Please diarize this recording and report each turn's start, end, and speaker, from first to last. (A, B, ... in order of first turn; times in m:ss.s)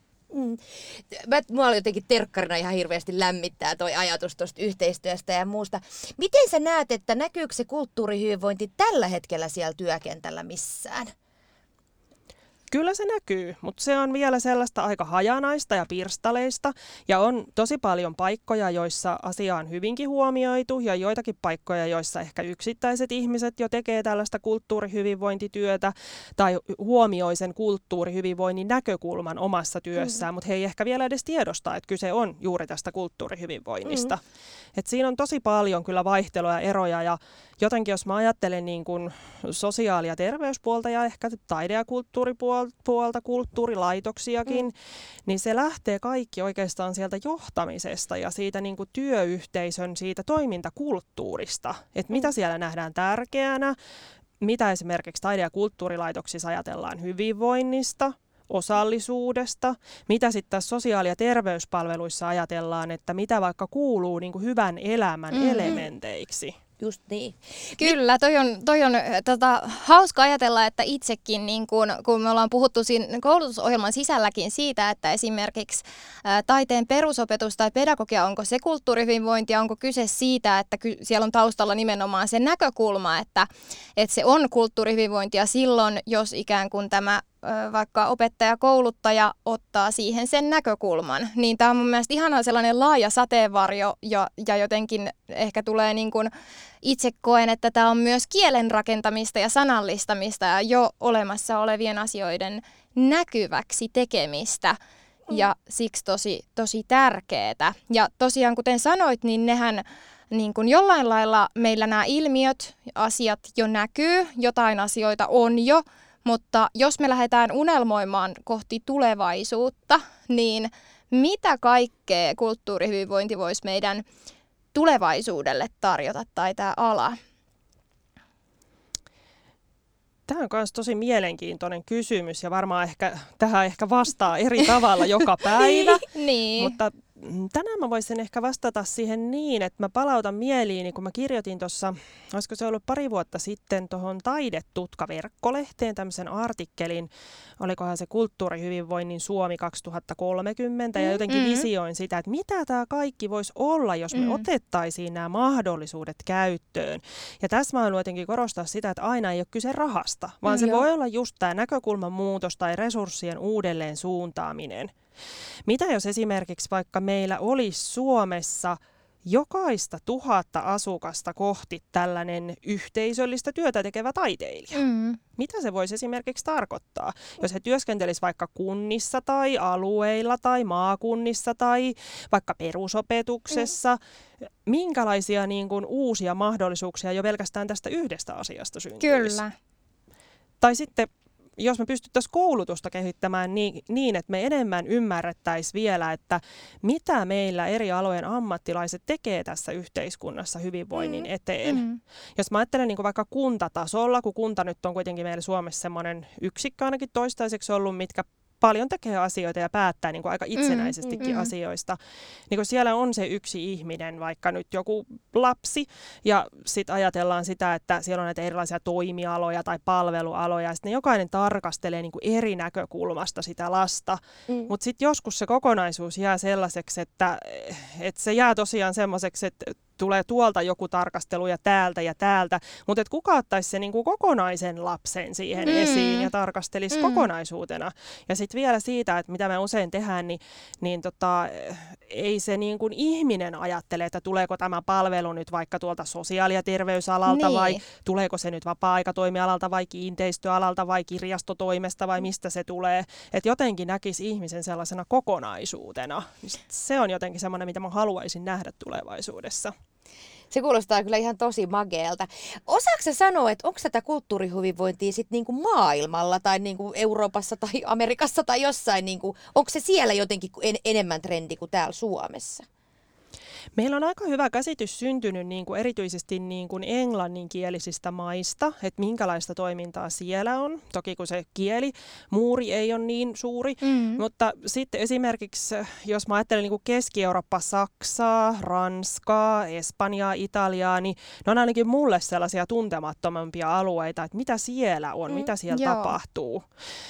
0:00.3-0:11.1 A
0:12.7-0:34.2 B
0:34.8-0:44.7 B
0:45.2-0:53.7 B
0:54.4-1:06.5 B
1:05.3-1:05.8 C
1:06.8-1:08.0 A
1:07.8-1:36.3 C
1:36.8-1:44.8 C
1:45.3-2:04.0 C
2:04.7-2:07.2 C
2:10.3-2:44.9 B
2:15.6-2:16.7 C
2:31.0-2:31.7 C
2:34.1-2:34.4 C
2:40.5-2:40.8 C
2:45.7-2:54.8 B
2:54.7-2:55.2 C
2:55.4-3:04.0 B
3:04.6-3:09.4 B
3:09.0-3:09.5 C
3:10.6-3:21.8 B
3:21.6-3:22.0 C
3:22.4-3:32.0 B
3:30.5-3:31.5 C
3:32.5-4:19.7 B
3:55.6-3:56.3 C
3:56.9-3:57.2 C
4:07.2-4:07.8 C
4:20.5-4:32.7 A
4:33.8-4:56.6 B
4:43.8-4:44.2 C
4:55.3-4:56.1 C